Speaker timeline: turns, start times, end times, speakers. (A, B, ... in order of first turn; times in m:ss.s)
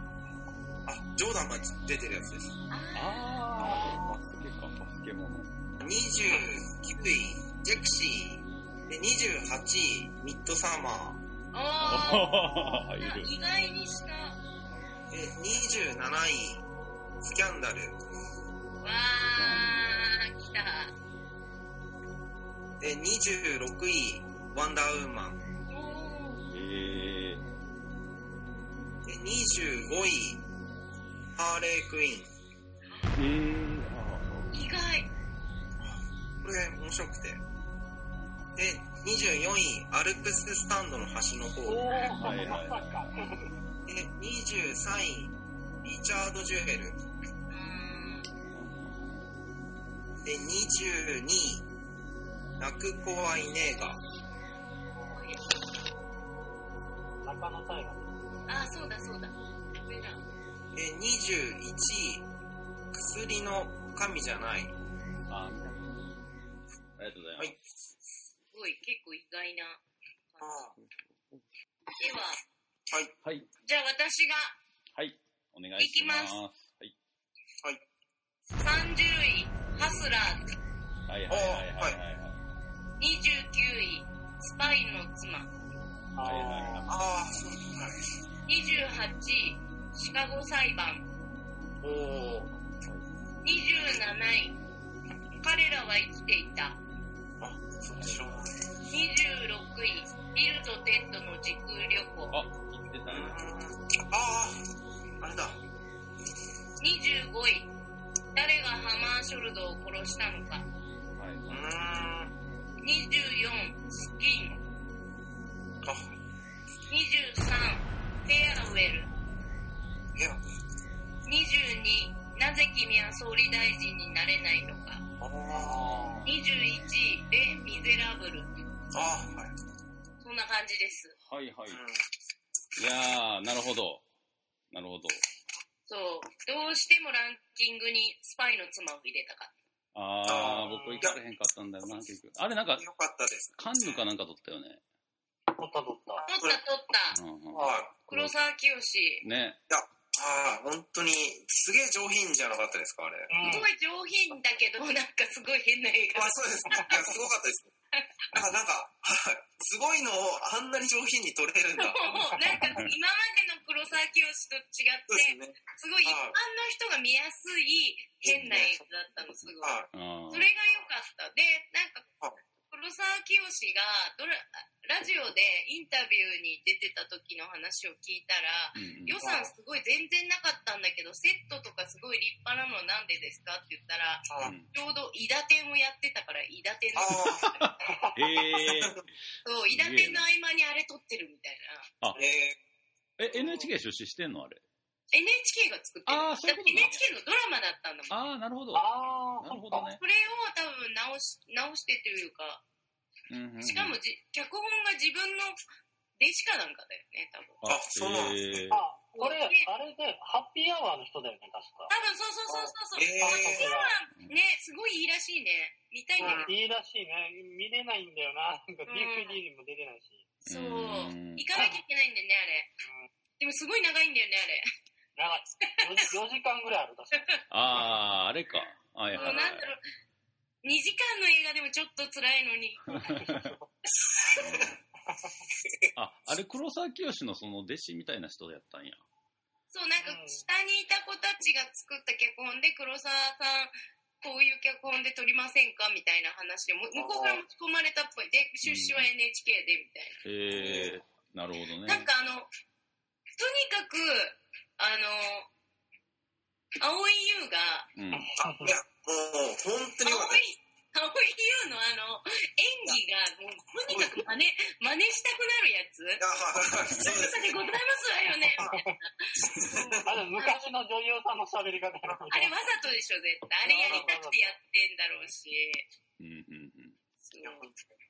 0:00.9-0:02.6 A
0:02.7-0:03.3 B
0:02.9-0:05.5 C
0:03.6-0:04.1 D
0:05.8-0:11.2 A
0:11.5-0:14.4 B
0:11.8-0:13.3 C
0:15.1-0:16.6 A
0:17.2-0:18.0 A
0:18.8-0:20.9 B
0:19.4-0:20.0 C
0:22.8-0:25.4 A
0:25.7-0:26.4 B
0:26.5-0:27.4 C
0:29.0-0:30.4 A
0:31.3-0:32.3 A
0:32.9-0:33.1 B
0:33.1-0:34.5 C
0:34.5-0:35.1 B
0:35.8-0:37.4 A
0:38.6-0:42.1 A
0:41.6-0:43.5 D
0:42.2-0:43.1 C
0:43.9-0:47.0 A
0:47.5-0:48.3 B
0:48.5-0:48.9 C
0:50.2-0:51.6 A
0:52.6-0:54.0 A
0:55.0-0:55.6 B
0:57.2-0:58.1 D
0:58.5-1:00.2 B
1:00.7-1:02.2 A
1:02.9-1:04.7 A
1:05.3-1:06.0 C
1:07.0-1:07.6 C
1:08.5-1:09.8 B
1:10.3-1:10.6 B
1:10.4-1:10.7 A
1:10.8-1:11.4 C
1:12.0-1:12.4 B
1:13.6-1:14.6 B
1:15.0-1:16.9 C
1:15.8-1:16.3 B
1:18.6-1:20.5 B
1:21.1-1:22.4 C
1:21.3-1:22.0 A
1:23.0-1:25.5 B
1:26.2-1:26.9 D
1:26.2-1:26.9 C
1:26.9-1:28.0 A
1:28.4-1:31.0 B
1:31.8-1:32.5 A
1:33.4-1:34.6 B
1:35.4-1:36.8 B
1:37.4-1:38.5 A
1:37.9-1:38.3 C
1:38.8-1:42.4 B
1:42.3-1:43.4 C
1:43.1-1:44.6 A
1:45.2-1:45.6 A
1:46.8-1:47.7 B
1:48.3-1:50.7 B
1:51.2-1:51.6 C
1:51.5-1:52.3 A
1:52.8-1:54.6 B
1:55.8-1:56.2 A
1:56.9-1:59.1 B
2:00.2-2:00.4 A
2:01.2-2:05.0 B
2:05.2-2:06.2 A
2:05.5-2:06.2 D
2:06.2-2:08.6 B
2:08.9-2:09.5 A
2:10.2-2:11.1 B
2:11.2-2:11.8 C
2:11.7-2:12.0 A
2:12.8-2:14.0 C
2:14.7-2:15.2 C
2:15.9-2:19.5 B
2:19.9-2:22.8 C
2:20.2-2:21.2 A
2:20.7-2:21.1 D
2:22.8-2:24.0 A
2:23.6-2:24.8 C
2:25.6-2:26.2 D
2:26.2-2:27.2 B
2:27.1-2:28.3 C
2:27.5-2:27.9 A
2:28.1-2:29.2 B
2:29.2-2:29.6 C
2:29.7-2:33.3 A
2:33.3-2:33.7 D
2:33.4-2:36.9 B
2:36.1-2:37.7 A
2:38.3-2:42.2 A
2:41.8-2:52.0 B
2:42.5-2:42.9 C
2:45.1-2:46.4 A
2:48.2-2:48.8 A
2:49.6-2:49.9 A
2:49.9-2:50.5 C
2:52.7-3:07.8 B
2:58.8-2:59.2 C
2:59.2-2:59.5 A
3:04.3-3:04.5 A
3:04.4-3:04.7 C
3:07.0-3:07.4 A
3:07.4-3:09.0 C
3:07.8-3:08.5 D
3:08.6-3:09.0 A
3:09.4-3:11.9 B
3:09.7-3:10.2 C
3:12.2-3:12.6 A
3:13.2-3:14.6 C
3:13.3-3:13.7 D
3:15.1-3:18.2 B
3:16.1-3:17.0 C
3:18.1-3:18.9 C
3:18.7-3:19.9 D
3:19.4-3:20.0 C
3:20.0-3:22.6 B
3:23.3-3:24.0 C
3:23.6-3:25.6 B
3:26.2-3:27.6 B
3:27.6-3:28.8 C
3:27.6-3:28.6 A
3:28.7-3:31.9 D
3:29.1-3:29.6 B
3:31.9-3:36.5 B
3:32.5-3:33.7 A
3:33.2-3:34.0 D
3:36.2-3:36.5 A
3:36.2-3:40.2 D
3:38.9-3:39.4 B
3:40.4-3:41.4 C
3:40.5-3:42.7 B
3:42.8-3:43.1 D
3:43.4-3:44.6 B
3:45.2-3:47.3 D
3:47.2-3:47.4 B
3:47.5-3:49.7 C
3:49.1-3:49.8 B
3:50.6-3:53.1 B
3:52.9-3:53.5 C
3:52.9-3:53.7 D
3:54.1-3:54.7 A
3:54.4-3:54.8 C
3:56.0-3:59.0 C
3:59.7-4:10.2 B
4:00.0-4:00.4 D
4:06.9-4:07.4 A
4:08.6-4:09.0 C
4:10.2-4:12.1 C
4:10.5-4:11.0 A
4:11.8-4:12.5 B
4:13.4-4:15.5 B
4:16.8-4:17.9 B
4:18.0-4:18.3 C
4:18.1-4:18.7 D
4:18.4-4:20.4 A
4:20.0-4:26.2 B
4:23.9-4:24.2 A
4:26.2-4:27.7 A
4:26.8-4:27.2 C
4:27.0-4:29.4 B
4:28.5-4:28.8 A
4:29.4-4:30.1 A
4:29.7-4:32.5 D
4:32.3-4:35.8 B
4:33.6-4:34.5 D
4:36.2-4:37.0 C
4:37.3-4:37.6 B
4:37.4-4:37.8 A